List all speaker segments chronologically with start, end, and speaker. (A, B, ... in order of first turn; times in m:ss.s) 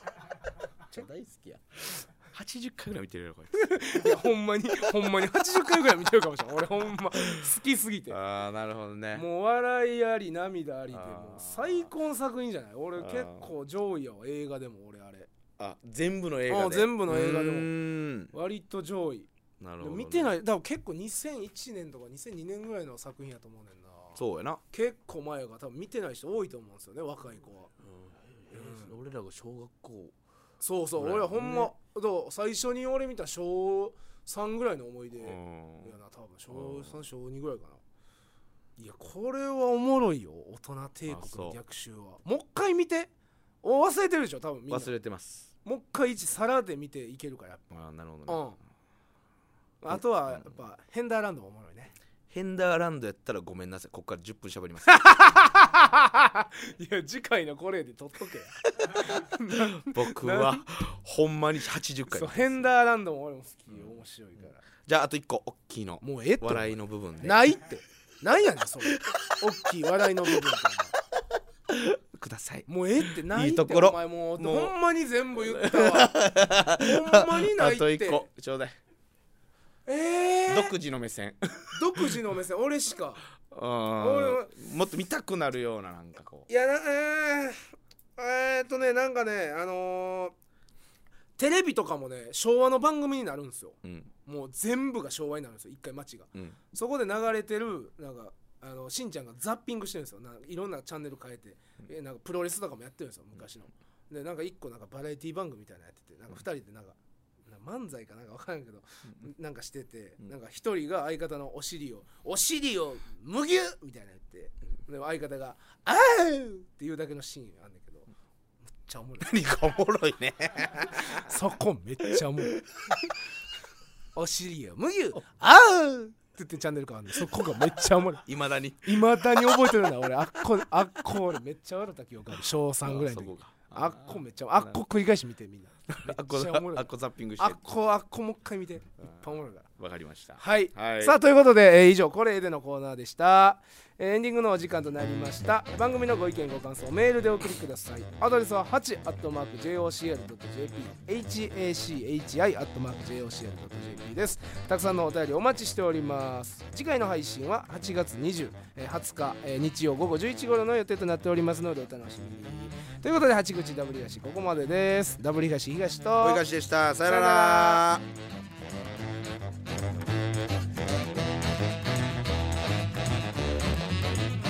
0:00.9-0:04.2 A
0:03.5-0:08.2 B
0:08.1-0:09.3 A
0:09.1-0:15.3 B
0:10.9-0:11.9 A
0:13.0-0:13.5 A
0:15.6-0:18.3 A
0:16.5-0:17.7 B
0:18.3-0:19.3 B
0:19.6-0:20.3 A
0:19.8-0:24.2 B
0:24.2-0:24.6 A
0:24.7-0:27.7 B
0:27.8-0:30.2 A
0:28.5-0:28.9 B
0:30.6-0:37.8 B
0:31.0-0:31.7 A
0:35.2-0:35.9 A
0:36.5-0:37.0 A
0:38.8-0:43.1 B
0:41.1-0:41.6 A
0:43.6-0:44.9 B
0:44.7-0:45.5 A
0:45.6-0:47.6 B
0:47.7-0:48.4 A
0:48.3-0:48.6 B
0:49.8-0:51.9 B
0:49.9-0:50.5 A
0:52.3-0:55.2 A
0:54.9-1:00.6 B
0:59.1-1:02.7 A
1:02.1-1:04.6 B
1:04.8-1:07.5 A
1:06.0-1:10.9 B
1:11.7-1:14.7 A
1:12.7-1:18.3 B
1:15.4-1:18.8 A
1:19.9-1:20.7 B
1:20.5-1:21.8 A
1:21.7-1:23.3 B
1:23.4-1:26.5 A
1:24.0-1:24.5 B
1:26.5-1:27.6 B
1:28.2-1:30.4 B
1:31.4-1:58.1 B
1:33.8-1:34.1 A
1:58.8-1:59.4 B
1:59.2-2:01.3 A
2:01.0-2:02.6 B
2:02.6-2:02.9 A
2:04.2-2:08.2 B
2:08.2-2:09.3 A
2:08.8-2:16.9 B
2:12.8-2:14.8 A
2:15.9-2:17.6 A
2:17.4-2:19.7 B
2:19.8-2:21.2 A
2:20.4-2:46.4 B
2:46.2-2:48.0 A
2:47.0-2:47.8 B